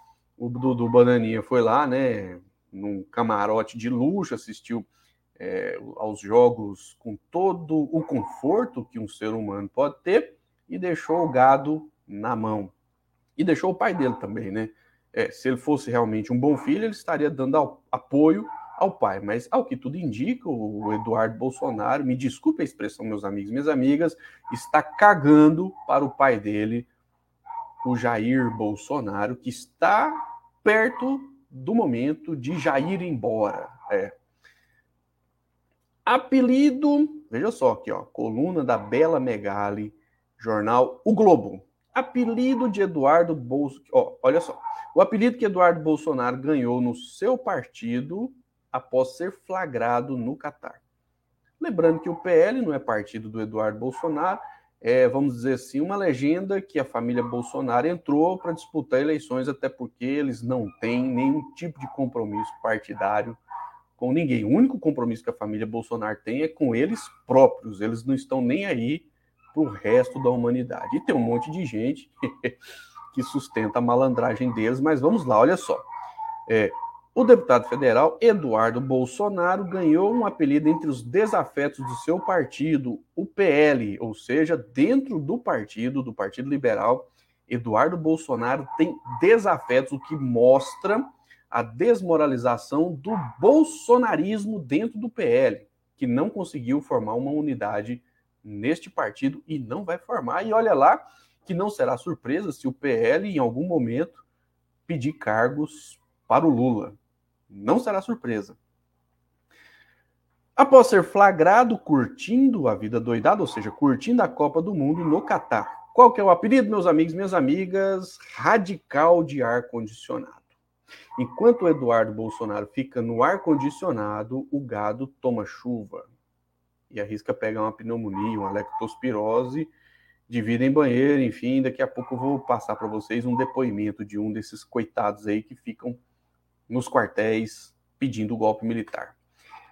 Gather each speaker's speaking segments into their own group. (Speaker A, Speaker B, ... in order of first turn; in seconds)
Speaker A: 0.4-12.7, 13.3-26.9, 27.8-34.1, 36.0-50.8, 51.6-63.4, 64.0-72.5, 73.1-75.8, 76.5-104.2, 104.9-107.0, 107.5-108.6, 110.6-120.5, 121.2-126.1, 126.9-129.7, 130.3-136.0, 136.7-139.2